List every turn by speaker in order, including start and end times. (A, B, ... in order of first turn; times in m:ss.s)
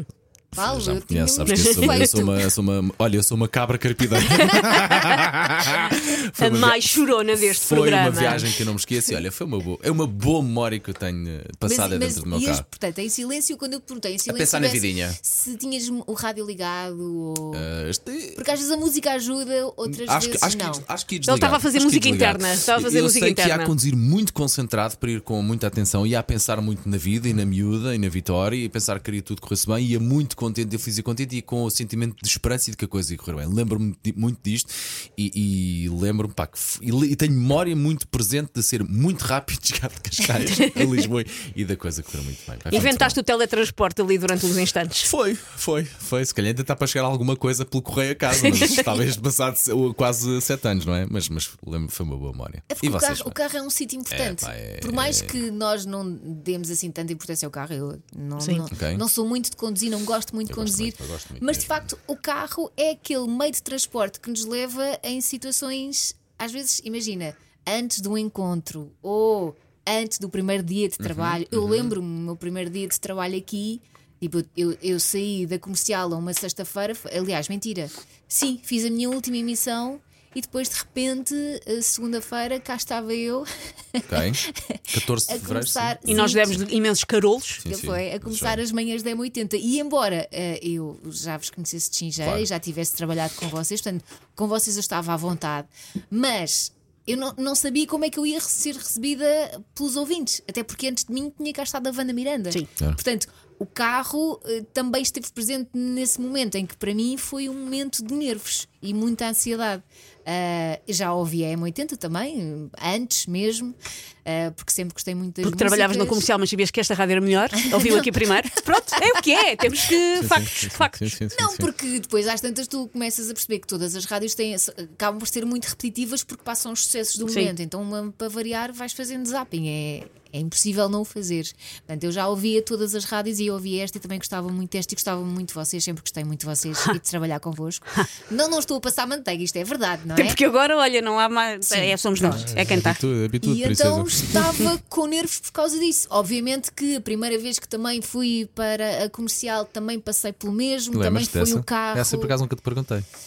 0:00.5-0:02.4 A
0:00.5-0:06.8 B
0:01.5-0:02.1 C
0:04.5-0:05.2 C
0:06.4-0:08.4 C
0:07.5-0:12.6 B
0:08.0-0:08.4 A
0:11.6-0:17.6 A
0:14.3-0:15.2 B
0:17.5-0:18.4 B
0:18.4-0:20.8 A
0:19.8-0:43.2 B
0:21.2-0:23.7 C
0:40.5-0:40.9 C
0:42.7-0:45.1 C
0:45.0-0:53.4 B
0:48.5-0:48.8 C
0:52.7-1:26.6 A
0:54.1-0:55.4 B
0:58.7-0:59.0 B
1:00.5-1:01.9 B
1:11.0-1:11.9 B
1:24.1-1:26.4 B
1:26.0-1:27.6 C
1:27.6-1:28.6 B
1:27.6-1:56.2 A
1:32.2-1:32.4 B
1:55.4-2:01.2 C
1:57.6-1:58.8 A
2:00.2-2:01.7 B
2:01.3-2:20.4 A
2:07.2-2:07.5 C
2:20.2-2:23.0 C
2:21.6-2:22.5 A
2:22.2-2:24.5 B
2:23.4-2:32.4 A
2:30.9-2:33.1 B